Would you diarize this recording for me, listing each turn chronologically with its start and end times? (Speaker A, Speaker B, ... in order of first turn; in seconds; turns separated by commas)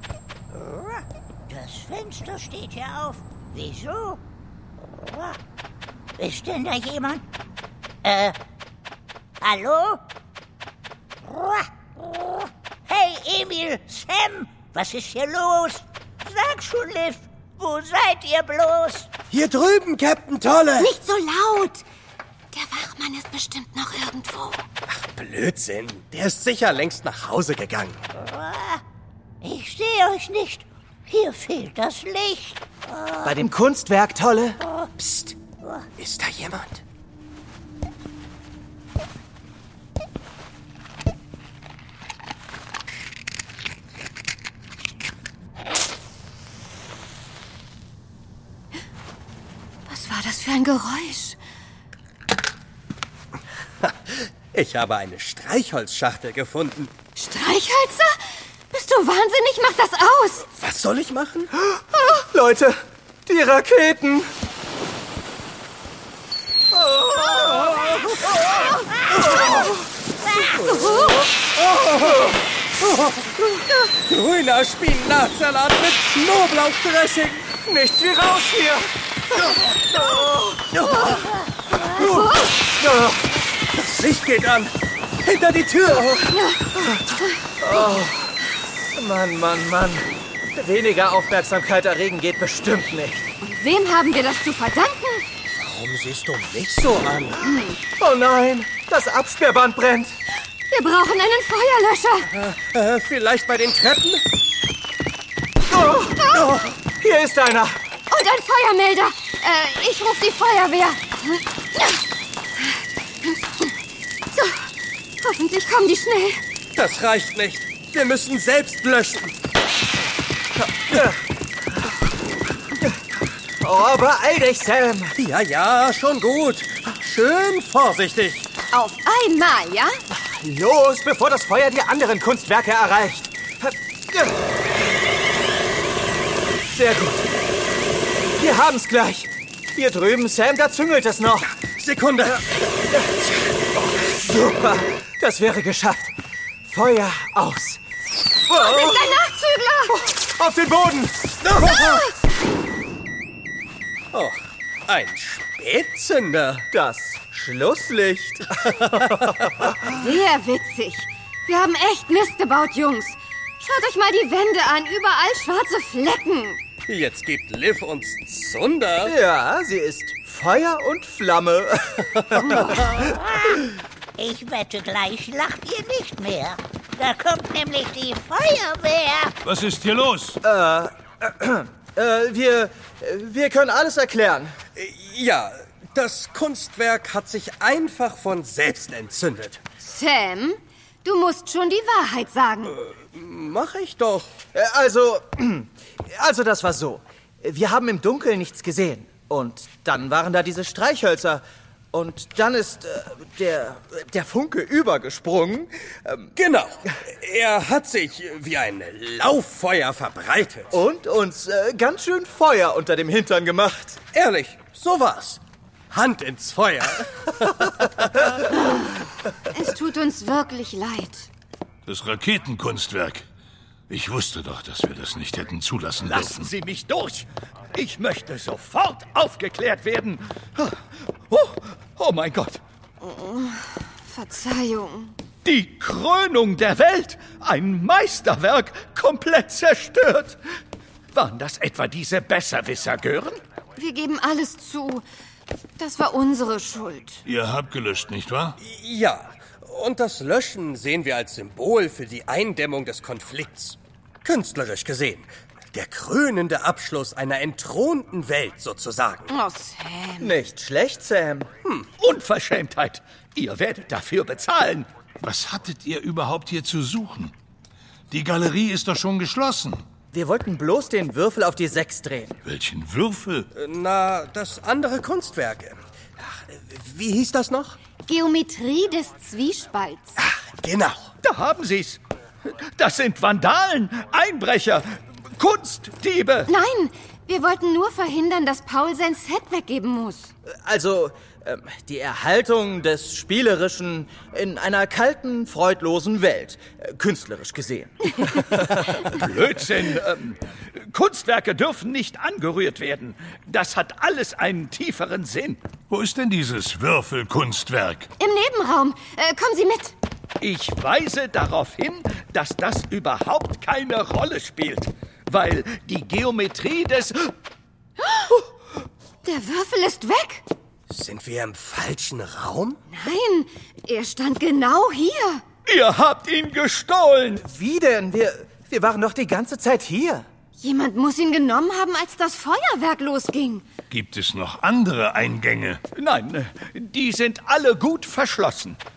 Speaker A: 0.5-4.2, Speaker A: 5.0-5.4, Speaker A: 6.2-7.2, Speaker A: 8.0-8.3, Speaker A: 9.4-10.0, Speaker A: 11.3-11.7, Speaker A: 12.9-19.1, Speaker B: 19.3-20.9, Speaker C: 20.8-21.8, Speaker C: 22.5-24.6, Speaker B: 24.9-28.0, Speaker A: 28.2-28.8, Speaker A: 29.4-32.6, Speaker D: 33.2-34.6, Speaker B: 35.0-35.3, Speaker B: 36.0-36.8, Speaker C: 49.9-51.4, Speaker B: 53.8-56.9, Speaker C: 57.1-58.1, Speaker C: 58.7-60.5, Speaker B: 60.5-61.5, Speaker D: 61.6-64.3, Speaker D: 69.2-69.7, Speaker B: 69.3-69.7, Speaker B: 70.5-77.5, Speaker D: 77.5-78.9, Speaker D: 79.8-80.9, Speaker B: 80.7-81.2, Speaker D: 81.8-83.3, Speaker B: 83.7-86.3, Speaker C: 86.3-86.7, Speaker D: 87.6-88.3, Speaker D: 88.9-93.2, Speaker C: 93.4-95.2, Speaker B: 95.5-97.4, Speaker C: 97.4-97.8, Speaker D: 98.0-100.1, Speaker C: 100.7-102.3, Speaker B: 102.4-104.2, Speaker D: 105.7-107.8, Speaker B: 106.3-106.8, Speaker C: 108.1-112.0, Speaker C: 112.6-113.7, Speaker C: 114.3-114.7, Speaker C: 115.2-116.4, Speaker B: 116.8-119.3, Speaker D: 120.6-121.2, Speaker D: 123.6-125.2, Speaker B: 125.2-128.5, Speaker C: 128.7-129.9, Speaker D: 130.1-134.4, Speaker D: 136.7-137.3, Speaker D: 138.4-141.5, Speaker B: 141.8-142.4, Speaker D: 142.9-147.8, Speaker D: 148.5-149.2, Speaker C: 148.5-150.0, Speaker D: 149.9-151.3, Speaker B: 151.4-152.1, Speaker C: 151.6-152.1, Speaker B: 154.1-156.6, Speaker D: 156.7-159.7, Speaker C: 160.0-166.6, Speaker B: 166.9-169.1, Speaker D: 169.0-173.0, Speaker A: 173.2-173.5, Speaker A: 174.2-179.3, Speaker E: 179.4-180.3, Speaker D: 180.4-184.5, Speaker B: 184.7-189.6, Speaker C: 189.8-192.8, Speaker B: 193.0-194.3, Speaker D: 194.5-206.3, Speaker B: 206.3-210.7, Speaker D: 210.7-214.0, Speaker B: 214.1-215.4, Speaker B: 215.9-218.5, Speaker C: 219.5-221.3, Speaker E: 221.9-223.2, Speaker E: 223.9-226.5, Speaker F: 226.0-230.8, Speaker F: 231.3-232.6, Speaker C: 233.0-235.1, Speaker F: 235.4-240.4, Speaker F: 241.1-243.4, Speaker C: 243.8-245.0, Speaker C: 245.8-247.2, Speaker E: 247.3-248.6, Speaker B: 248.6-259.3, Speaker C: 259.3-260.3, Speaker D: 260.2-261.5, Speaker F: 262.0-264.9, Speaker E: 265.2-267.3, Speaker E: 268.1-269.8, Speaker D: 270.1-272.4, Speaker E: 272.5-273.5, Speaker B: 273.5-277.8, Speaker C: 278.1-280.2, Speaker B: 280.2-281.1, Speaker F: 281.2-282.0, Speaker F: 282.8-286.5, Speaker C: 286.5-290.3, Speaker D: 290.6-299.1, Speaker F: 299.0-305.6, Speaker E: 305.9-308.0, Speaker C: 308.2-309.9, Speaker F: 310.4-317.3, Speaker C: 319.2-320.4, Speaker B: 320.9-322.8, Speaker C: 322.9-325.4, Speaker F: 325.6-327.4, Speaker D: 327.4-330.2, Speaker C: 330.6-333.6, Speaker E: 333.9-335.8, Speaker F: 335.9-338.8